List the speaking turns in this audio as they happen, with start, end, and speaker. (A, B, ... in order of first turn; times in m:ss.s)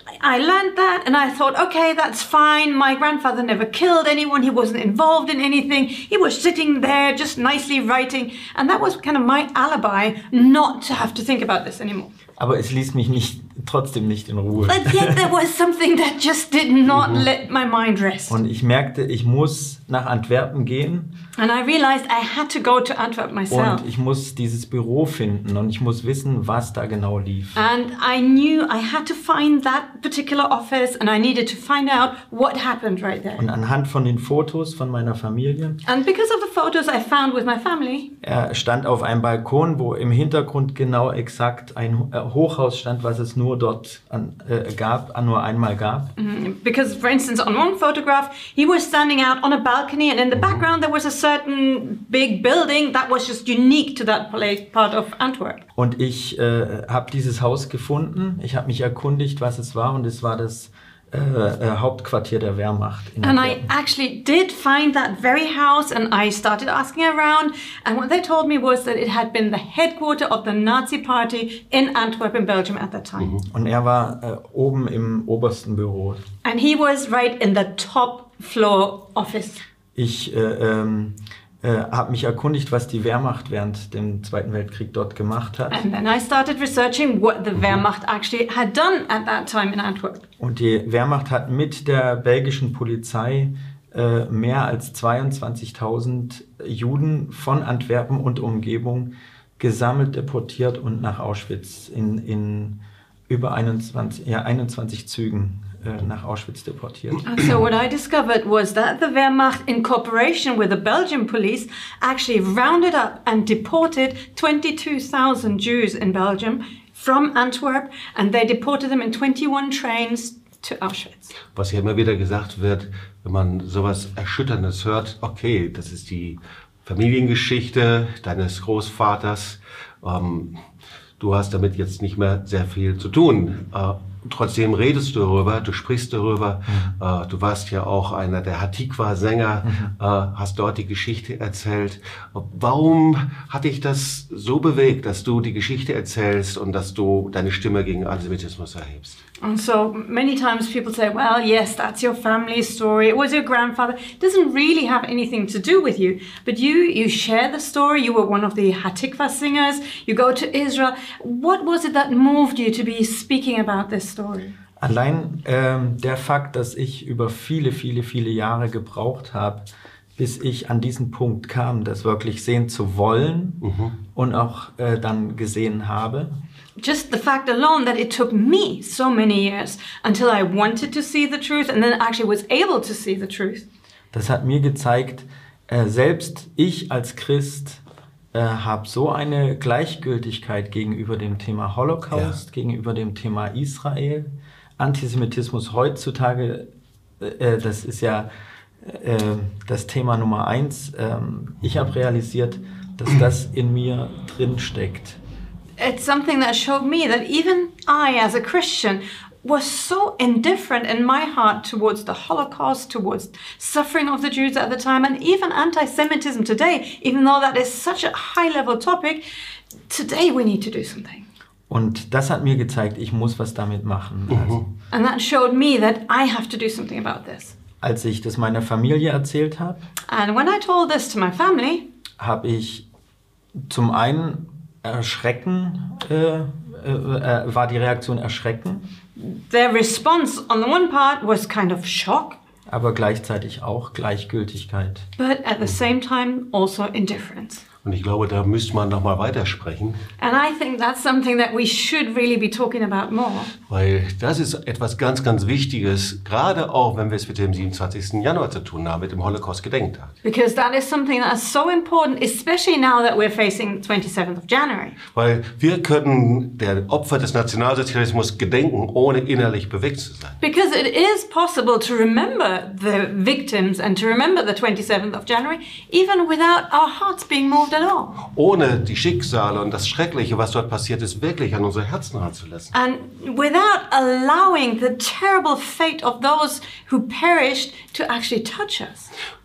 0:00.2-0:12.1 A
0:12.4-0:15.3 B
0:14.6-0:18.4 A
0:18.3-0:21.1 B
0:21.4-0:23.8 A
0:23.5-0:27.6 B
0:27.5-0:33.4 A
0:33.4-0:35.8 B
0:35.8-0:38.1 A
0:38.2-0:46.1 B
0:46.2-0:55.6 A
0:55.8-1:03.7 B
1:03.2-1:13.4 A
1:13.5-1:16.2 B
1:16.4-1:19.6 A
1:20.0-1:25.8 B
1:25.7-1:30.2 A
1:30.4-1:42.8 B
1:43.3-1:47.3 B
1:47.2-2:01.3 A
2:01.6-2:10.5 C
2:11.2-2:29.2 C
2:16.7-2:16.9 B
2:19.6-2:19.9 B
2:29.4-2:44.6 A
2:44.8-2:49.6 B
2:50.2-2:53.6 B
2:53.6-2:53.9 C
2:54.1-2:56.4 B
2:56.8-3:03.6 A
3:04.1-3:07.8 B
3:08.3-3:16.7 B
3:12.1-3:12.4 C
3:17.2-3:18.3 B
3:18.8-3:25.2 B
3:25.8-3:39.2 A
3:39.9-3:41.2 A
3:41.7-3:44.6 B
3:44.3-3:44.6 C
3:44.9-3:47.5 A
3:47.8-3:49.8 B
3:50.1-3:51.9 A
3:52.2-3:52.8 B
3:53.7-3:58.8 B
3:59.2-4:02.4 A
4:02.7-4:05.0 B
4:05.2-4:07.6 A
4:07.8-4:10.0 C
4:10.2-4:13.5 A
4:13.7-4:20.1 C
4:20.2-4:25.0 A
4:25.1-4:30.4 C
4:30.4-4:38.2 A
4:38.3-4:42.7 C
4:42.7-4:49.1 A